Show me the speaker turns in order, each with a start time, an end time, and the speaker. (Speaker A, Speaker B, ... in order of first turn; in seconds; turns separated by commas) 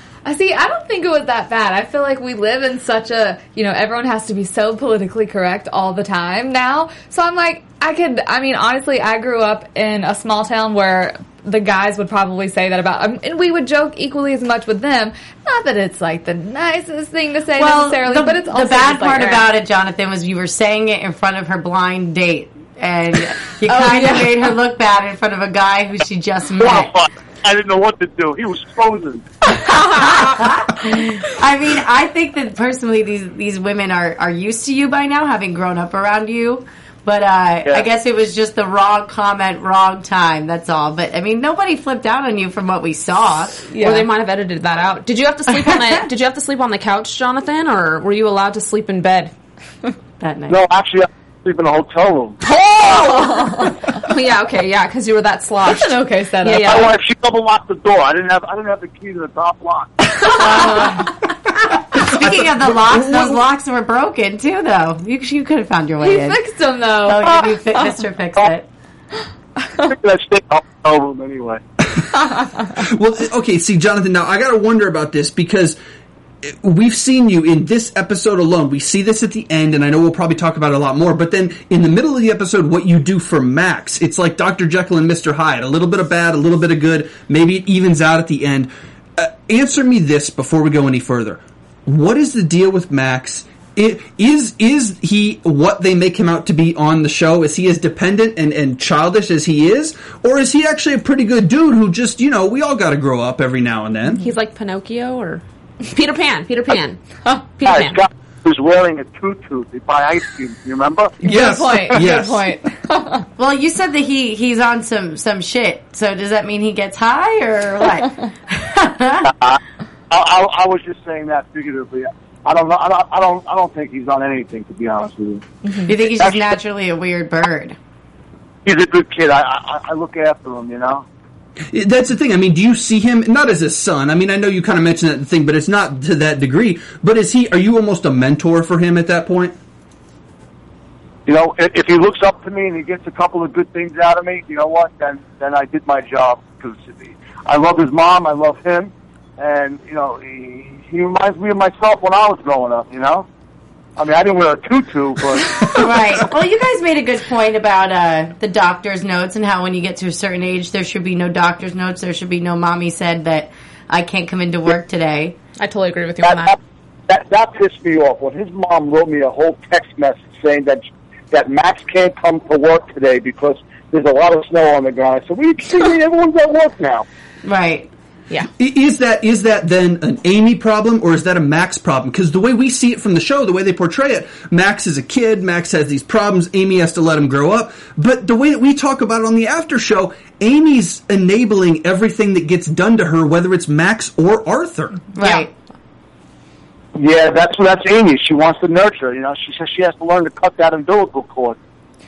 Speaker A: 0.2-19.5, Speaker B: 17.6-26.9, Speaker A: 23.7-24.5, Speaker C: 26.6-29.2, Speaker B: 29.8-43.6, Speaker A: 43.7-44.1, Speaker D: 43.7-49.3, Speaker B: 50.2-50.6, Speaker C: 50.5-53.3, Speaker A: 52.6-53.8, Speaker D: 54.0-57.0, Speaker A: 55.6-56.9, Speaker C: 56.6-60.5, Speaker B: 60.4-61.2, Speaker B: 61.9-66.4, Speaker A: 66.0-67.8, Speaker B: 67.0-68.7, Speaker C: 69.8-71.6, Speaker E: 72.6-75.8, Speaker E: 76.4-104.2, Speaker D: 104.2-107.0, Speaker D: 107.6-108.0, Speaker C: 107.6-111.2, Speaker E: 111.2-112.5, Speaker A: 111.2-113.3, Speaker B: 113.4-119.3, Speaker C: 120.1-125.4, Speaker B: 125.8-127.8, Speaker C: 126.2-126.5, Speaker C: 128.7-131.1, Speaker E: 131.7-139.6, Speaker C: 141.3-153.3, Speaker C: 154.0-155.8, Speaker B: 155.7-165.4, Speaker D: 165.6-166.6, Speaker C: 166.2-166.6, Speaker C: 167.1-177.1, Speaker B: 177.4-177.9, Speaker E: 178.6-195.0, Speaker B: 195.2-195.5, Speaker C: 196.9-201.6